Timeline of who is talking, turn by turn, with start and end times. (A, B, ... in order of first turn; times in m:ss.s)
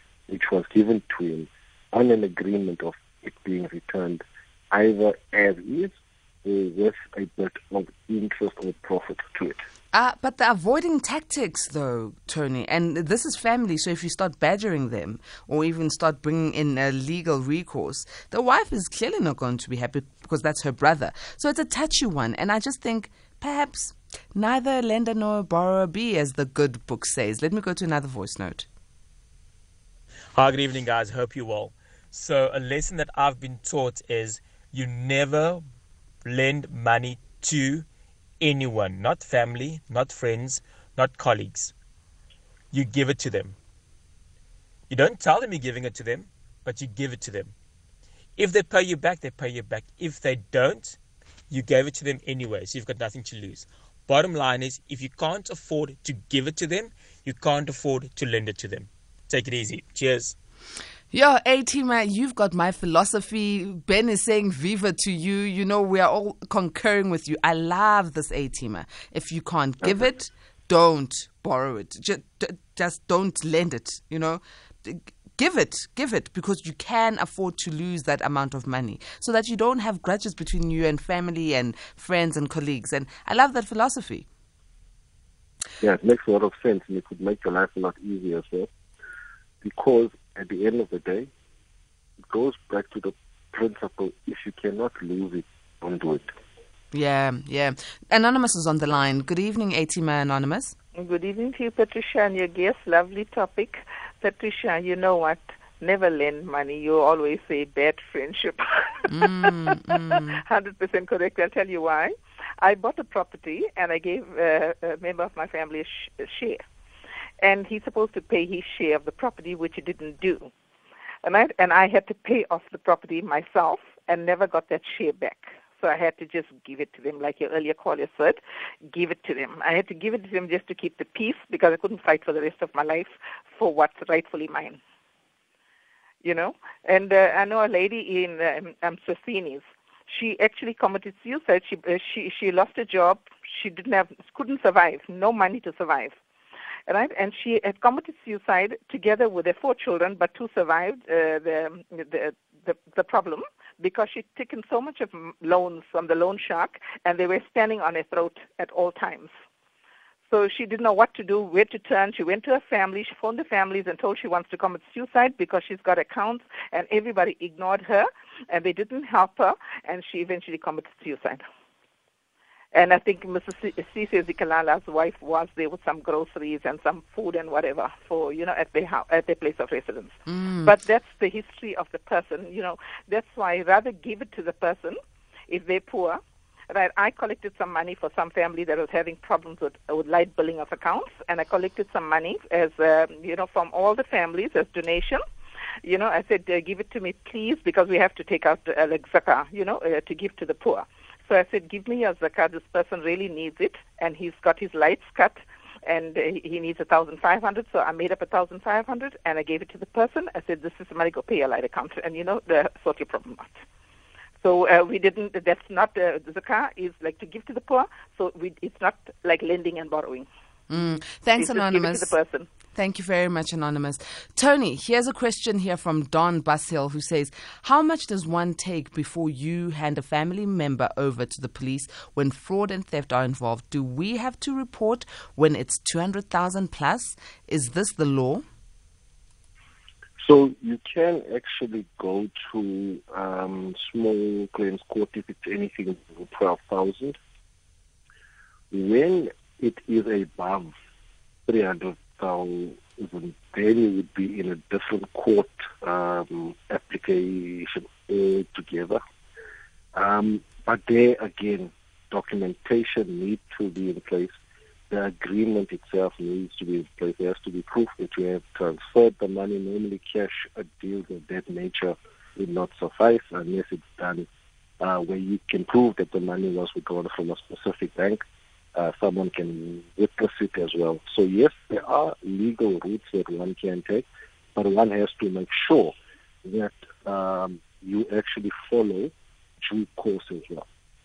0:00.3-0:09.6 A
0:09.9-0:28.7 B
0:30.3-0:35.6 C
0:36.2-0:37.8 C
0:38.4-0:41.7 C
0:42.7-0:43.6 C
0:44.9-0:47.5 C
0:48.4-0:51.0 C
0:51.5-1:00.4 C
1:01.1-1:24.3 B
1:25.8-1:28.7 A
1:29.6-1:31.3 A
1:32.3-1:36.3 A
1:36.9-1:40.8 B
1:41.0-1:56.6 D
1:49.1-1:50.4 B
1:57.4-2:00.5 D
2:01.2-2:14.8 D
2:16.2-2:26.2 D
2:26.9-2:39.3 D
2:40.3-2:51.4 D
2:52.7-3:06.2 D
3:00.3-3:00.7 B
3:06.7-3:15.2 D
3:15.8-3:33.6 D
3:34.4-3:40.3 D
3:40.7-3:42.1 B
3:41.4-3:42.5 D
3:42.8-3:58.4 B
4:00.2-4:07.2 A
4:08.7-4:10.7 A
4:11.5-4:19.0 A
4:20.0-4:24.3 A
4:24.9-4:34.3 A
4:34.8-4:38.2 A
4:38.8-4:45.9 A
4:46.4-4:50.7 A